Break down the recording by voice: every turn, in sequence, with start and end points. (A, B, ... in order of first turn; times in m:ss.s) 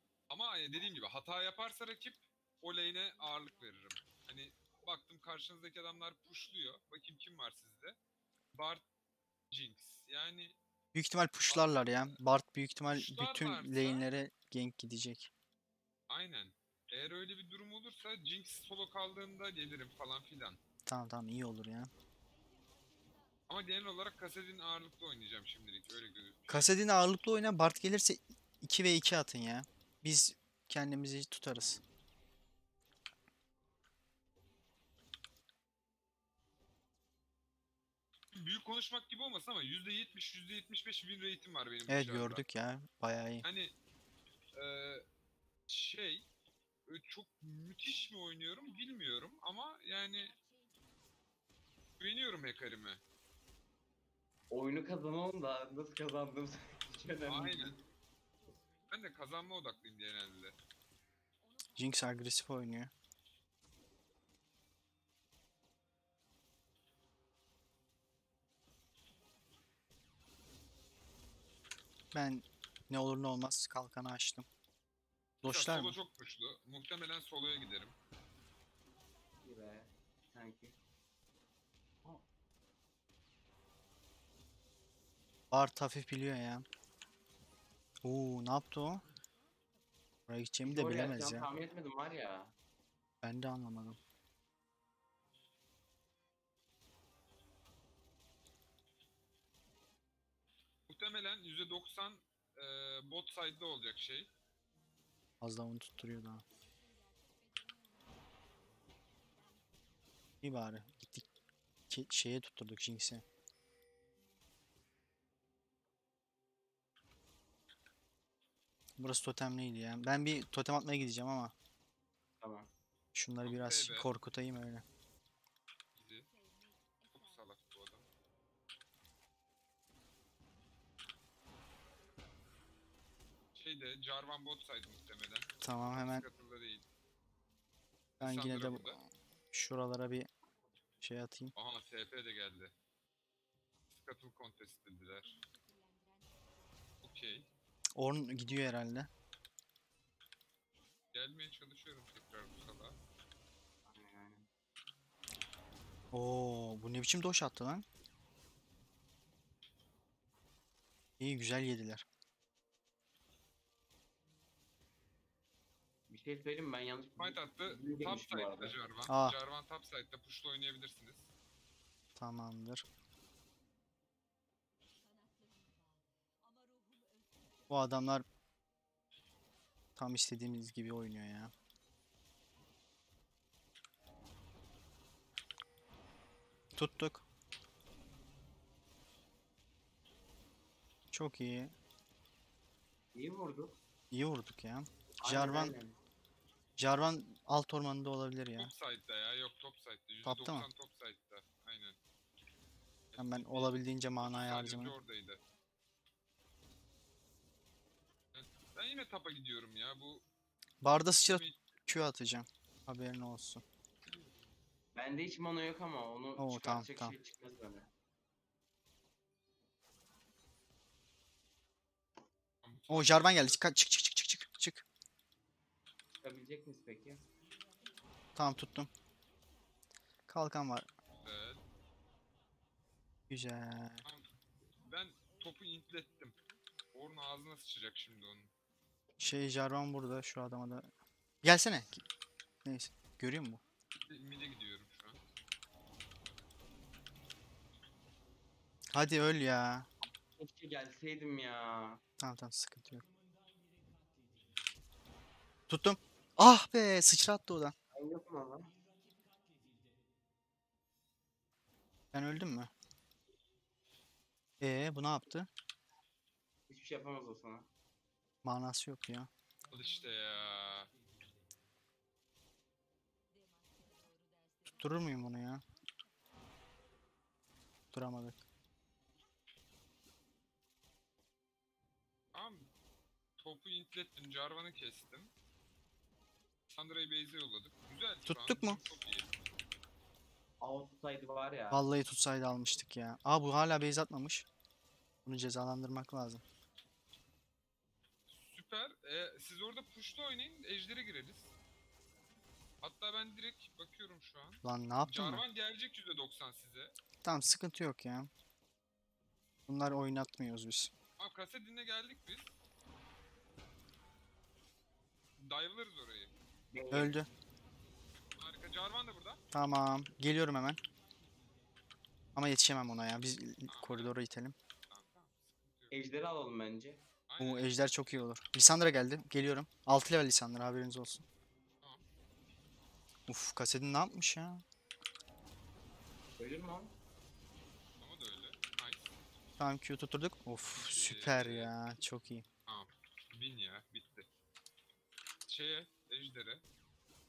0:00.3-0:08.0 A
0:08.5-0:08.8 A
0:09.5-0:10.6 A
0:10.9-0:15.3 B
0:11.5-0:12.2 A
0:12.9-0:14.1 A
0:16.1-0:20.6 A
0:20.8-0:21.9 B
0:23.5-0:26.7 A
0:26.5-0:31.8 B
0:38.3-0:42.4 A
0:41.9-0:43.4 B
0:43.4-0:43.7 A
0:44.6-0:45.0 A
0:45.7-0:46.3 A
0:46.9-0:50.4 A
0:52.0-0:53.0 A
0:54.5-0:57.8 C
0:57.2-0:57.8 A
0:58.9-1:00.6 A
1:01.8-1:02.9 B
1:12.1-1:14.4 B
1:15.4-1:16.0 B
1:15.4-1:18.0 A
1:19.4-1:20.8 C
1:25.5-1:26.6 B
1:28.0-1:29.0 B
1:30.3-1:31.5 B
1:30.6-1:32.5 C
1:33.2-1:34.0 B
1:40.9-1:44.3 A
1:45.4-1:46.4 B
1:50.4-1:51.2 B
1:51.9-1:53.2 B
1:59.0-2:01.5 B
2:02.4-2:02.7 C
2:03.1-2:04.8 B
2:03.4-2:04.1 A
2:05.9-2:06.3 A
2:07.1-2:08.1 A
2:13.5-2:16.8 A
2:15.6-2:16.2 B
2:18.2-2:19.0 A
2:18.2-2:20.3 B
2:21.0-2:21.5 B
2:21.5-2:22.7 A
2:23.9-2:25.4 A
2:27.0-2:27.5 A
2:28.0-2:29.1 B
2:31.1-2:33.0 A
2:33.8-2:34.5 C
2:36.1-2:37.8 B
2:41.2-2:42.0 B
2:46.1-2:48.7 C
2:47.2-2:51.3 A
2:49.1-2:49.4 B
2:52.2-2:52.8 B
2:57.7-2:58.2 B
3:00.0-3:01.5 B
3:06.7-3:07.2 B
3:11.1-3:11.7 B
3:13.1-3:13.8 C
3:14.1-3:15.7 B
3:15.2-3:16.0 C
3:16.8-3:18.7 B
3:18.6-3:22.0 A
3:20.2-3:20.7 B
3:23.1-3:25.4 A
3:23.2-3:24.9 B
3:28.3-3:30.2 A
3:30.8-3:33.6 B
3:31.1-3:31.7 A
3:34.9-3:37.9 C
3:36.4-3:37.1 B
3:42.6-3:43.6 A
3:42.9-3:44.8 B
3:46.2-3:47.2 C
3:48.3-3:48.9 B
3:50.3-3:50.9 B
3:51.1-3:51.6 A
3:53.3-3:54.0 B
3:54.8-3:56.4 A
3:56.9-3:58.5 A
3:59.2-4:00.9 B
4:01.4-4:02.0 B
4:02.6-4:03.6 B
4:04.1-4:05.2 A
4:08.9-4:09.9 B
4:10.4-4:12.0 C
4:12.2-4:13.0 B
4:15.7-4:17.7 B
4:17.9-4:18.7 C
4:22.1-4:22.7 B
4:24.6-4:25.5 B
4:26.7-4:27.7 C
4:28.4-4:29.3 B
4:29.7-4:30.9 A
4:34.7-4:35.6 B
4:37.9-4:38.4 B
4:42.3-4:42.7 A
4:43.4-4:45.3 A
4:46.7-4:49.3 A
4:48.2-4:48.8 B
4:50.6-4:51.8 C
4:51.7-4:54.5 B
4:55.2-4:56.4 B
4:58.3-5:01.5 A
5:02.8-5:07.0 A
5:04.6-5:05.4 B
5:07.2-5:08.3 B
5:09.7-5:10.9 B
5:11.2-5:12.5 A
5:15.4-5:16.3 A
5:16.7-5:17.2 C
5:16.9-5:17.3 B
5:18.4-5:19.4 A
5:19.5-5:20.8 B
5:22.4-5:24.5 B
5:23.7-5:24.1 A
5:24.9-5:26.0 A
5:25.9-5:27.0 C
5:27.3-5:28.2 A
5:27.4-5:31.2 B
5:33.3-5:34.6 B
5:36.4-5:37.0 C
5:38.0-5:39.2 A
5:39.6-5:42.4 B
5:40.7-5:41.7 A
5:42.7-5:44.3 A
5:45.4-5:46.6 A